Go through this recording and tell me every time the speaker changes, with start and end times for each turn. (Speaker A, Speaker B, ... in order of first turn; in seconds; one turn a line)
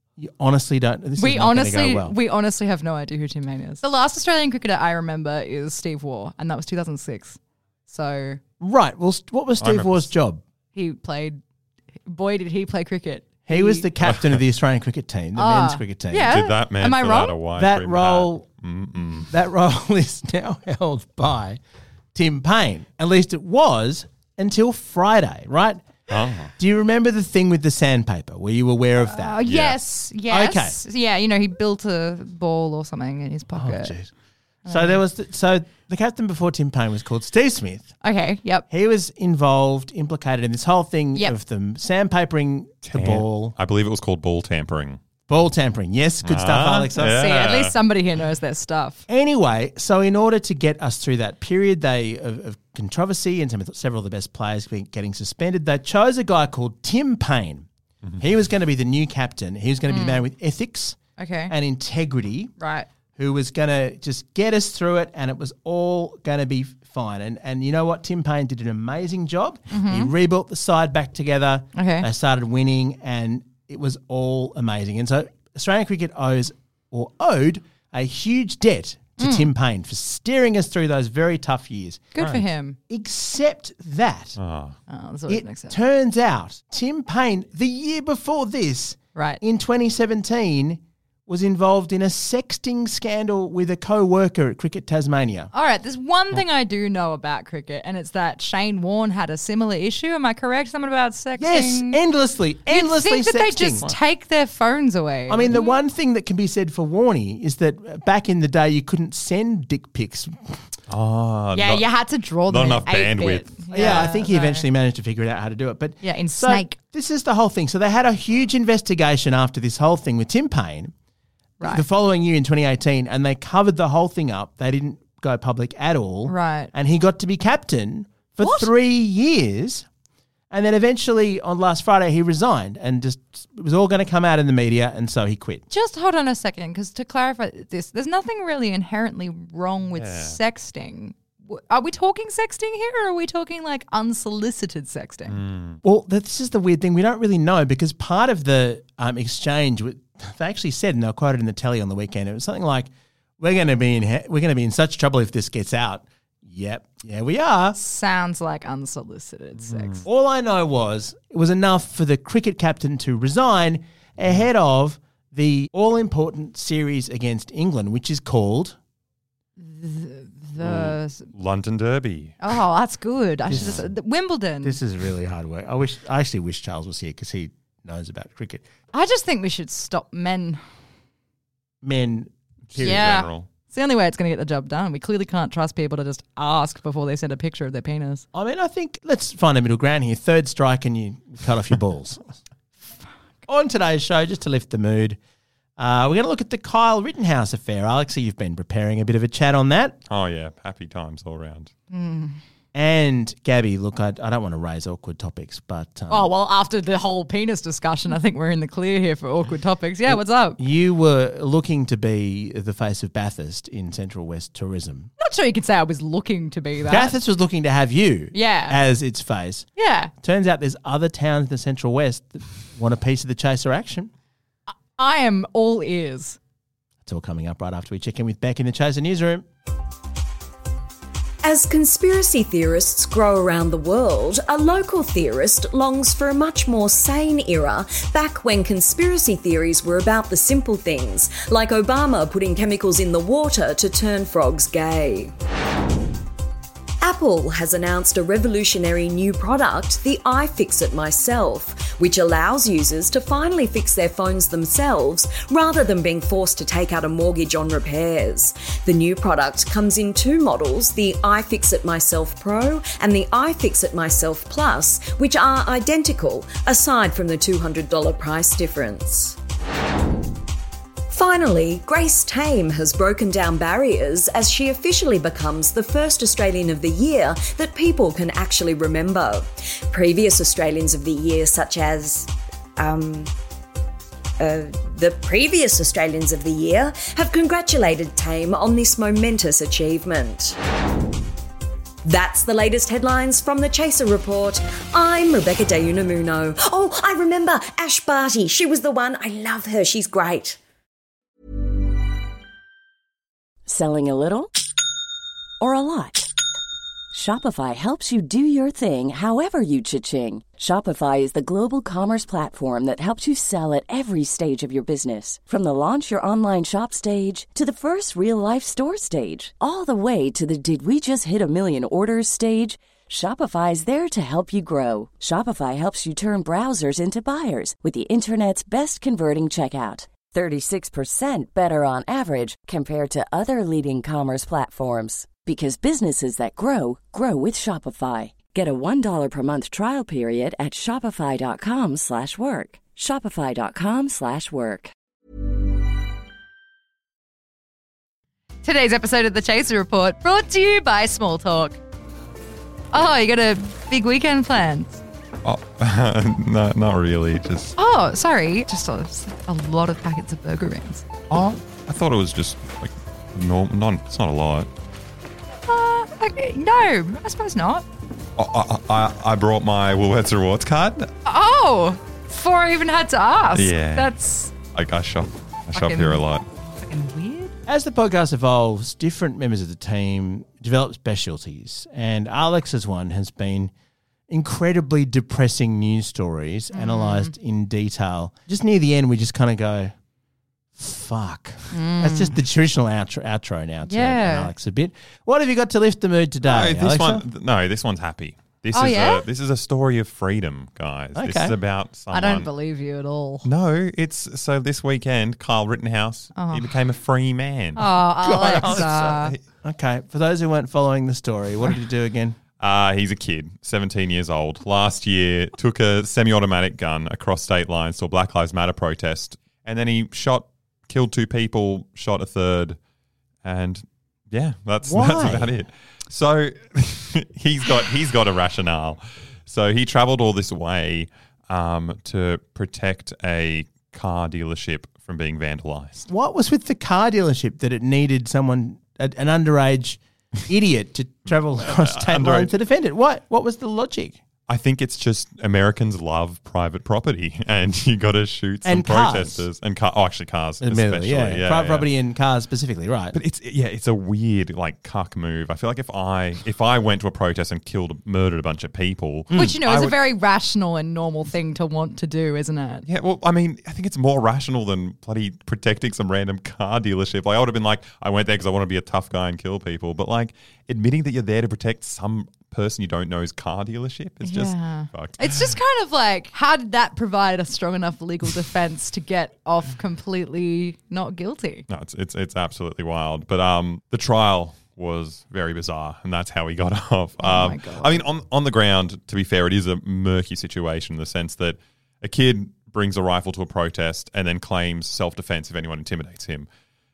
Speaker A: 0.2-2.2
Speaker B: 1.2-8.4
Speaker A: 8.6-10.4
Speaker C: 9.6-10.1
Speaker B: 10.8-11.4
Speaker B: 12.1-13.9
Speaker A: 13.5-16.4
Speaker C: 14.1-14.4
Speaker B: 15.4-17.4
Speaker C: 16.3-19.3
Speaker A: 17.6-18.4
Speaker A: 19.3-21.6
Speaker A: 22.1-25.9
Speaker C: 26.1-26.5
Speaker A: 26.6-29.4
Speaker B: 29.1-34.0
Speaker C: 29.4-29.8
Speaker A: 30.3-30.8
Speaker A: 33.5-34.1
Speaker B: 34.6-35.0
Speaker A: 34.7-37.9
Speaker B: 38.0-38.7
Speaker A: 38.7-43.5
Speaker C: 42.9-45.0
Speaker A: 45.3-47.2
Speaker C: 46.2-47.8
Speaker B: 47.0-49.0
Speaker A: 49.1-57.7
Speaker A: 58.2-61.0
Speaker B: 59.9-60.2
Speaker B: 61.2-61.5
Speaker A: 61.5-62.5
Speaker B: 62.6-62.9
Speaker A: 63.2-84.4
Speaker B: 69.7-70.1
Speaker B: 71.8-72.1
Speaker B: 79.2-79.5
Speaker B: 82.1-82.8
Speaker C: 84.4-84.8
Speaker B: 84.9-85.8
Speaker A: 85.3-95.5
Speaker B: 89.1-89.4
Speaker B: 95.5-102.0
Speaker A: 101.4-104.0
Speaker B: 102.7-105.8
Speaker A: 105.3-110.6
Speaker C: 110.9-111.9
Speaker B: 111.5-114.6
Speaker C: 112.5-114.1
Speaker A: 113.7-120.9
Speaker B: 116.0-116.8
Speaker B: 121.6-121.8
Speaker A: 121.6-129.9
Speaker B: 126.3-126.7
Speaker B: 128.4-128.7
Speaker A: 130.5-135.6
Speaker B: 135.7-145.4
Speaker C: 139.9-140.4
Speaker C: 145.3-145.8
Speaker A: 145.8-157.8
Speaker B: 157.8-160.1
Speaker C: 159.7-160.0
Speaker A: 160.1-168.8
Speaker B: 169.6-171.3
Speaker C: 170.6-172.4
Speaker B: 172.4-174.8
Speaker A: 173.5-173.8
Speaker C: 173.5-173.8
Speaker A: 174.6-178.6
Speaker B: 178.9-180.6
Speaker A: 181.8-183.1
Speaker C: 182.7-183.5
Speaker B: 182.8-188.2
Speaker A: 188.3-192.2
Speaker A: 193.5-195.2
Speaker A: 195.8-200.0
Speaker C: 200.1-201.7
Speaker B: 201.9-202.4
Speaker A: 202.7-206.3
Speaker B: 206.1-210.6
Speaker A: 210.1-215.1
Speaker B: 215.2-217.2
Speaker A: 216.8-224.1
Speaker B: 218.3-218.8
Speaker B: 219.8-220.1
Speaker B: 224.7-226.4
Speaker A: 227.1-229.5
Speaker D: 231.4-245.3
Speaker D: 247.0-269.4
Speaker D: 271.1-283.3
Speaker D: 284.4-290.6
Speaker D: 292.0-300.6
Speaker E: 303.7-304.5
Speaker E: 305.6-306.3
Speaker E: 307.1-344.9
Speaker B: 348.6-351.8
Speaker B: 352.9-355.0
Speaker C: 355.4-357.8
Speaker B: 357.8-361.1
Speaker C: 361.3-364.7
Speaker B: 365.7-367.9
Speaker C: 368.4-371.1
Speaker B: 371.2-374.5
Speaker C: 373.5-374.1
Speaker C: 374.7-376.4
Speaker B: 375.7-377.6
Speaker A: 377.7-383.7
Speaker A: 384.3-389.9
Speaker B: 386.7-387.3
Speaker A: 390.8-397.2
Speaker B: 391.7-392.4
Speaker B: 393.9-394.5
Speaker C: 396.4-402.5
Speaker B: 398.7-399.2
Speaker A: 401.1-401.6
Speaker B: 402.1-403.5
Speaker C: 403.4-409.4
Speaker B: 406.3-406.7
Speaker B: 407.8-409.3
Speaker A: 408.2-412.4
Speaker C: 412.6-422.8
Speaker C: 423.4-436.1
Speaker A: 424.8-425.5
Speaker A: 436.1-444.2
Speaker C: 441.6-442.5
Speaker C: 444.5-451.9
Speaker A: 448.6-449.4
Speaker A: 450.6-453.2
Speaker C: 453.1-460.0
Speaker B: 459.3-462.8
Speaker C: 462.9-475.6
Speaker B: 474.2-481.6
Speaker C: 481.7-496.5
Speaker B: 487.2-488.0